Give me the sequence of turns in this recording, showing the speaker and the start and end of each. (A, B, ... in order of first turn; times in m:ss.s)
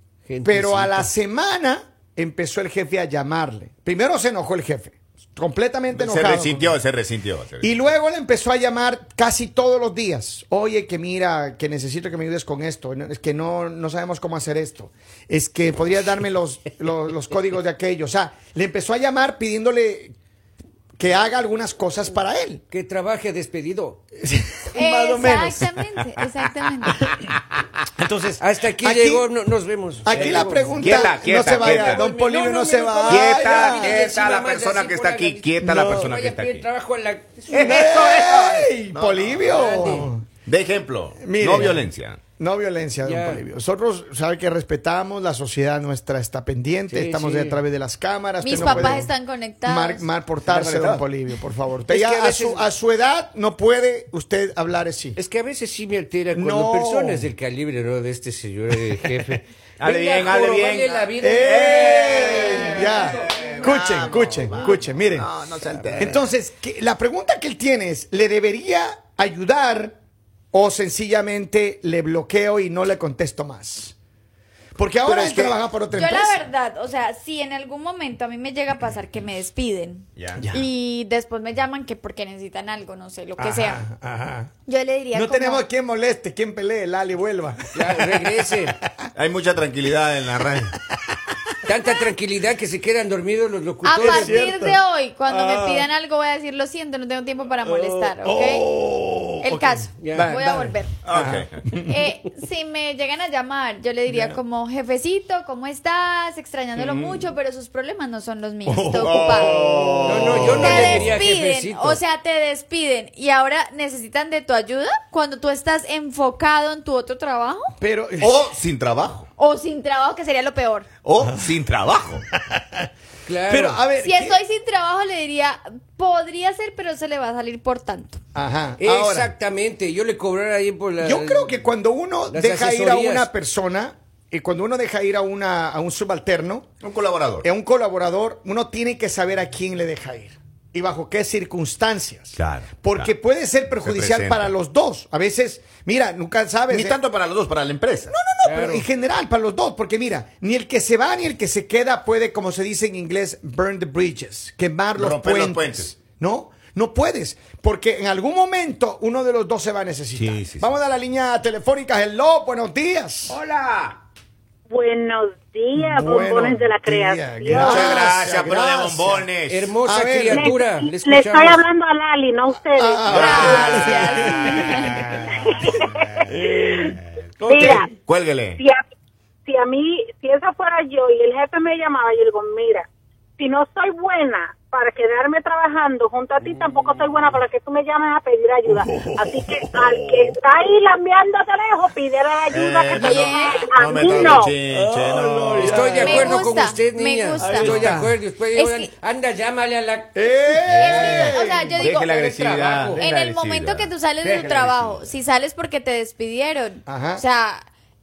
0:00.3-0:01.1 A
0:00.4-0:06.8 B
0:05.9-0:07.7 C
0:07.6-0:20.1 B
0:21.0-0:22.6 B
0:22.7-0:24.0 A
0:24.2-0:25.6 B
0:24.7-0:27.0 D
0:28.0-0:29.3 B
0:28.4-0:38.3 A
0:30.0-0:34.0 B
0:30.1-0:32.0 C
0:33.1-0:36.7 C
0:35.6-0:36.1 B
0:37.5-0:42.2 C
0:37.6-0:40.2 B
0:39.5-0:40.1 A
0:41.2-0:41.8 B
0:42.4-0:49.1 B
0:43.0-0:43.4 A
0:46.9-0:47.6 A
0:48.4-0:50.1 D
0:48.5-0:49.0 C
0:49.6-0:55.2 B
0:50.4-0:51.0 C
0:51.9-0:52.7 A
0:55.2-1:02.9 A
0:56.3-0:57.3 B
0:59.8-1:06.2 C
1:00.2-1:05.3 B
1:06.0-1:09.9 B
1:10.5-1:13.9 B
1:14.8-1:16.4 B
1:15.0-1:15.6 C
1:15.9-1:23.8 D
1:20.2-1:20.4 C
1:20.4-1:20.7 B
1:23.4-1:24.5 B
1:24.6-1:25.6 D
1:25.1-1:28.9 B
1:27.7-1:28.8 A
1:29.2-1:30.8 C
1:31.6-1:34.5 A
1:33.8-1:38.7 D
1:34.0-1:35.9 B
1:37.6-1:42.0 B
1:39.4-1:40.9 D
1:40.0-1:40.3 A
1:41.0-1:41.6 C
1:41.8-1:49.5 D
1:44.1-1:44.4 B
1:46.7-1:47.3 B
1:48.6-1:51.2 B
1:49.0-1:51.1 C
1:50.0-1:52.0 A
1:50.6-1:57.7 D
1:57.8-1:58.4 B
1:58.2-1:59.3 C
1:59.4-2:00.9 D
2:01.0-2:02.2 C
2:01.2-2:01.5 B
2:02.3-2:02.9 B
2:03.2-2:03.8 A
2:03.5-2:04.4 B
2:04.0-2:08.2 D
2:08.3-2:09.3 B
2:08.8-2:11.6 A
2:11.0-2:16.7 B
2:12.3-2:13.3 A
2:16.8-2:17.5 C
2:17.4-2:27.0 B
2:22.4-2:23.1 C
2:23.8-2:24.5 C
2:26.7-2:28.1 C
2:28.1-2:43.4 B
2:28.4-2:28.8 A
2:35.0-2:35.9 C
2:40.1-2:40.7 C
2:43.3-2:44.0 C
2:44.7-2:48.0 E
2:45.7-2:49.2 B
2:47.5-2:49.7 C
2:49.5-2:51.6 A
2:49.8-2:50.5 B
2:50.3-2:54.0 E
2:52.7-2:55.0 B
2:53.1-2:53.9 C
2:53.1-2:55.0 D
2:55.1-2:57.9 E
2:56.3-2:57.8 B
2:58.0-2:58.6 C
2:59.5-3:02.8 E
3:03.4-3:14.6 E
3:08.7-3:10.3 B
3:12.5-3:15.8 C
3:12.9-3:13.7 D
3:14.7-3:16.6 B
3:15.6-3:20.6 A
3:16.0-3:17.8 D
3:17.4-3:18.2 B
3:17.6-3:18.0 C
3:18.5-3:18.9 D
3:20.1-3:21.8 B
3:20.6-3:25.0 C
3:20.7-3:27.6 D
3:22.1-3:23.0 A
3:26.8-3:27.2 B